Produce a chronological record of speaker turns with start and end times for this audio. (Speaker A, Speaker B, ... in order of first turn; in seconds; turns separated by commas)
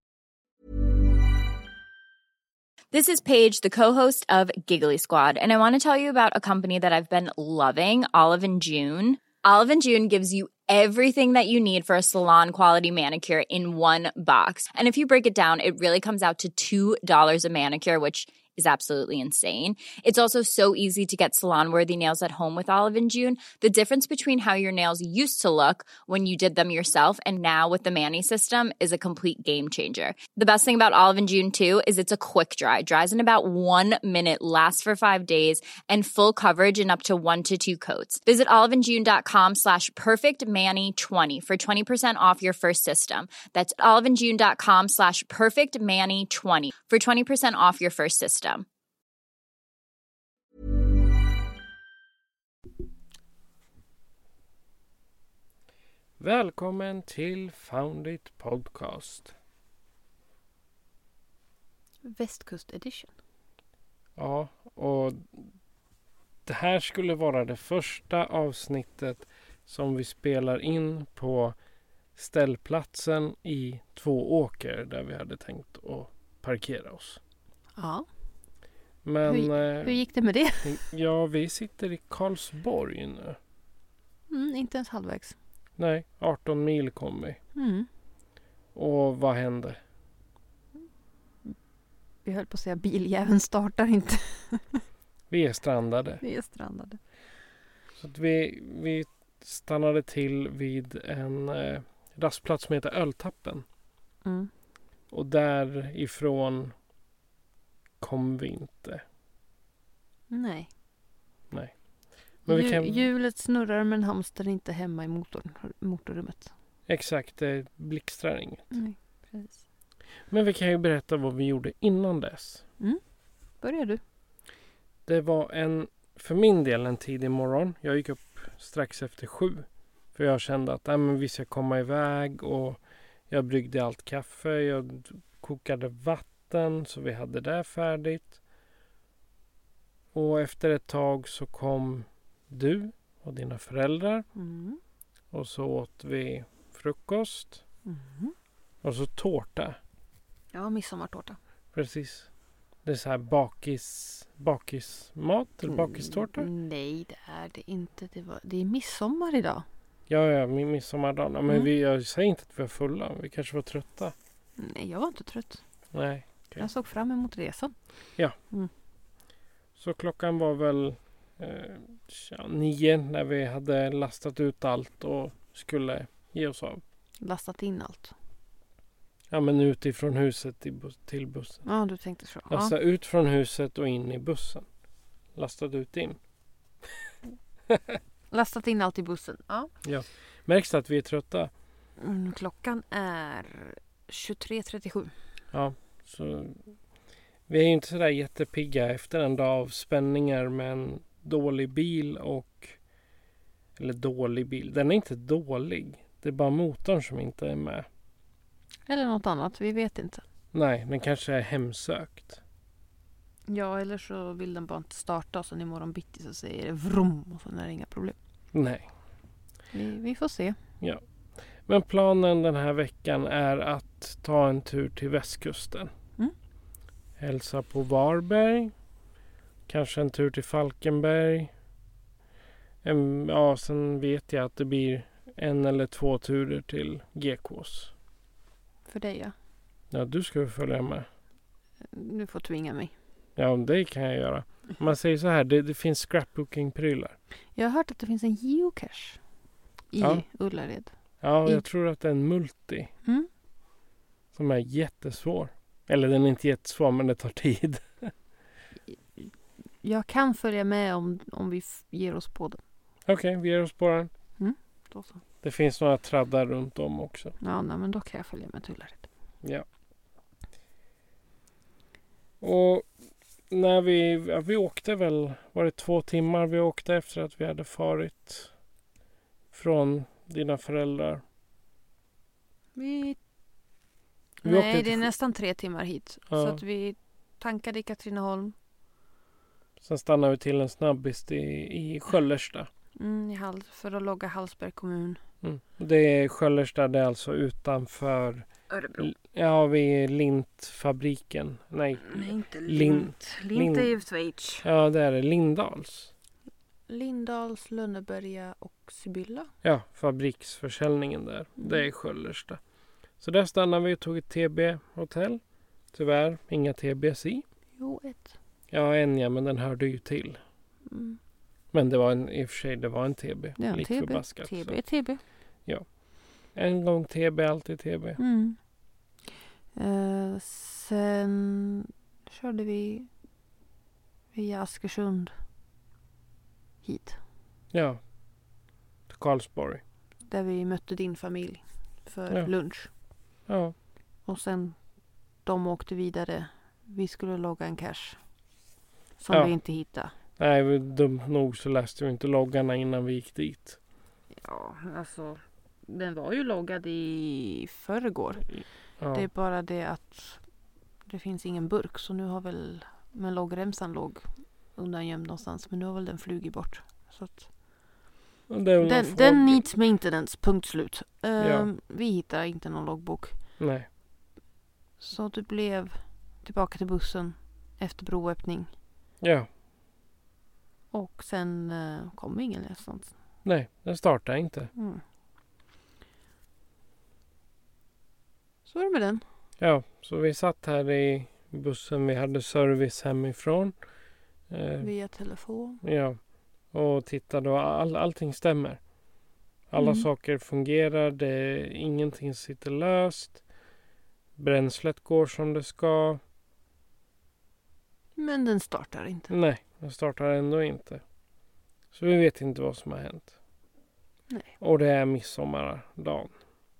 Speaker A: 2.9-48.6, Speaker B: 56.2-59.3, Speaker C: 62.0-63.1, Speaker B: 64.2-65.5, Speaker B: 66.5-71.5, Speaker B: 72.1-77.2, Speaker C: 77.8-78.0, Speaker B: 79.0-80.0, Speaker C: 79.2-80.8, Speaker B: 80.6-83.4, Speaker C: 84.3-85.3, Speaker B: 85.8-87.4, Speaker C: 87.5-87.9, Speaker B: 88.7-89.8, Speaker C: 92.2-94.8, Speaker B: 95.3-96.2, Speaker C: 96.2-97.0, Speaker B: 98.0-103.6, Speaker C: 104.2-104.5, Speaker B: 105.1-106.7, Speaker B: 108.0-109.0, Speaker C: 110.3-110.7, Speaker B: 111.5-111.8, Speaker B: 112.4-113.1, Speaker C: 112.5-116.5, Speaker B: 116.9-118.7, Speaker C: 118.7-119.6, Speaker B: 120.3-122.6, Speaker C: 123.6-124.0, Speaker B: 125.0-138.4, Speaker B: 140.1-144.2, Speaker C: 144.3-144.8, Speaker B: 145.3-147.6, Speaker C: 147.8-148.3, Speaker B: 148.8-149.8, Speaker C: 150.5-151.4, Speaker B: 151.7-152.3, Speaker B: 152.8-156.5, Speaker C: 155.7-159.6, Speaker B: 160.1-164.1, Speaker C: 164.6-165.6, Speaker B: 165.9-166.7, Speaker C: 166.5-167.8, Speaker B: 169.7-176.8, Speaker C: 177.2-178.1, Speaker B: 179.3-181.7, Speaker C: 181.6-182.8, Speaker B: 182.5-184.7, Speaker B: 185.3-186.2, Speaker C: 188.3-189.7, Speaker B: 189.8-191.5, Speaker C: 192.0-195.1, Speaker B: 195.5-196.6, Speaker B: 197.5-202.8, Speaker B: 203.8-207.9, Speaker C: 208.9-210.2, Speaker B: 210.5-212.4, Speaker C: 213.5-218.2, Speaker B: 218.5-218.9, Speaker C: 219.7-220.6, Speaker B: 221.7-225.9, Speaker B: 227.2-228.7, Speaker B: 229.7-231.5, Speaker B: 232.8-237.9, Speaker C: 238.9-239.3, Speaker B: 239.9-241.1, Speaker C: 241.9-242.9, Speaker B: 243.4-247.1, Speaker C: 247.5-249.2, Speaker C: 249.9-251.7, Speaker B: 250.0-250.2, Speaker B: 251.2-252.9, Speaker B: 254.3-258.1, Speaker C: 258.9-262.6, Speaker B: 263.1-264.1, Speaker C: 264.4-265.2, Speaker B: 265.4-267.3, Speaker C: 267.4-269.1, Speaker B: 272.4-272.9, Speaker B: 273.5-278.5, Speaker B: 279.5-281.2, Speaker C: 282.8-283.2, Speaker C: 284.4-288.5, Speaker B: 284.4-285.0, Speaker B: 286.3-286.6, Speaker B: 289.8-292.7, Speaker C: 293.0-295.2, Speaker B: 295.4-303.9, Speaker C: 298.7-299.1, Speaker C: 302.0-304.6, Speaker B: 304.6-306.1, Speaker C: 306.9-309.5, Speaker B: 309.6-312.6, Speaker C: 311.6-311.9, Speaker B: 313.2-315.4, Speaker B: 315.9-317.4, Speaker C: 317.8-318.3, Speaker B: 318.7-320.4, Speaker C: 320.9-321.2, Speaker B: 321.7-324.8, Speaker C: 323.6-325.2, Speaker B: 325.6-328.2, Speaker C: 328.2-328.6, Speaker C: 329.7-333.1, Speaker C: 334.3-335.3, Speaker C: 336.8-337.2, Speaker B: 337.7-338.0, Speaker B: 339.1-339.8, Speaker C: 340.3-342.9, Speaker B: 343.5-343.7, Speaker C: 344.2-344.9, Speaker C: 345.4-348.2, Speaker C: 349.2-350.1, Speaker B: 349.3-349.6, Speaker B: 350.4-353.8, Speaker C: 354.3-360.4, Speaker B: 359.0-359.3, Speaker C: 361.0-367.7, Speaker B: 368.5-369.6, Speaker C: 368.8-373.3, Speaker B: 371.4-371.7, Speaker B: 373.6-373.9, Speaker C: 375.0-378.7, Speaker B: 379.2-379.5, Speaker C: 380.9-383.1, Speaker B: 383.4-384.7, Speaker C: 384.7-385.0, Speaker C: 388.6-389.2, Speaker B: 389.6-393.8, Speaker B: 394.5-394.9, Speaker C: 394.8-395.8, Speaker B: 395.8-398.8, Speaker B: 399.7-403.4, Speaker C: 399.8-400.1, Speaker B: 404.4-406.2, Speaker C: 408.1-409.3, Speaker B: 409.3-411.0, Speaker B: 411.9-413.3, Speaker C: 414.3-414.5, Speaker B: 414.6-416.3